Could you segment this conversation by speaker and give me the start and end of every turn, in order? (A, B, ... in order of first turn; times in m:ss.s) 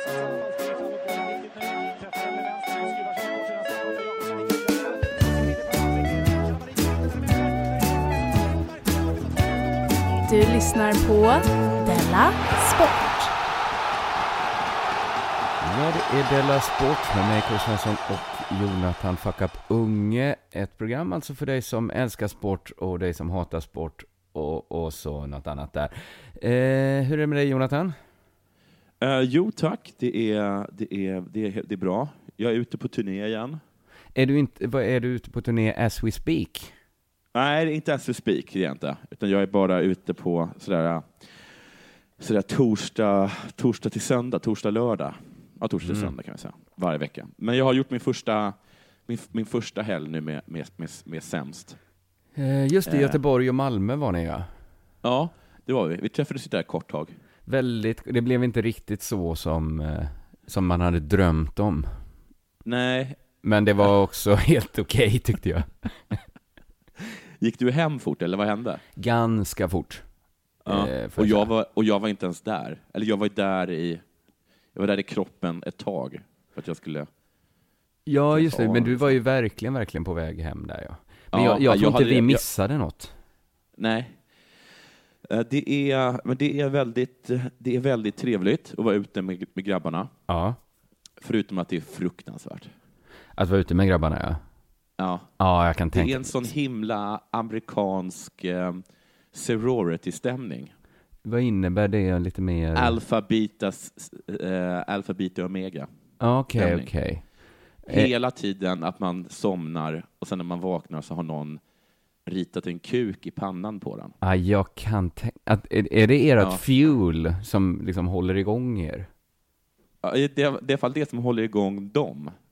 0:10.2-0:13.3 A
0:15.6-0:28.0 B
0:29.0-0:33.6 C
0:34.2-0:36.7 B
0:37.3-0:41.5 C
0:42.2-0:51.8 C
0:45.9-0:46.1 B
0:52.4-0:54.5 B
0:52.9-0:53.2 C
0:55.0-0:57.1 C
0:57.5-1:01.9 B
1:02.6-1:03.2 C
1:03.4-1:06.2 B
1:07.4-1:08.8 C
1:09.0-1:10.0 B
1:10.6-1:14.0 C
1:10.7-1:11.5 B
1:14.7-1:17.1 C
1:18.1-1:23.1 B
1:18.3-1:19.2 C
1:21.3-1:22.4 C
1:23.8-1:24.2 C
1:25.3-1:30.1 C
1:30.3-1:30.6 B
1:31.2-1:32.7 C
1:33.4-1:34.4 B
1:35.0-1:35.3 C
1:35.4-1:36.5 B
1:35.9-1:38.8 C
1:39.3-1:40.7 C
1:41.2-1:43.0 B
1:42.8-1:45.9 C
1:46.2-1:47.2 B
1:46.6-1:46.9 C
1:47.8-1:48.1 B
1:47.9-1:51.6 C
1:52.3-1:54.1 C
1:54.2-1:59.1 B
2:00.0-2:02.3 C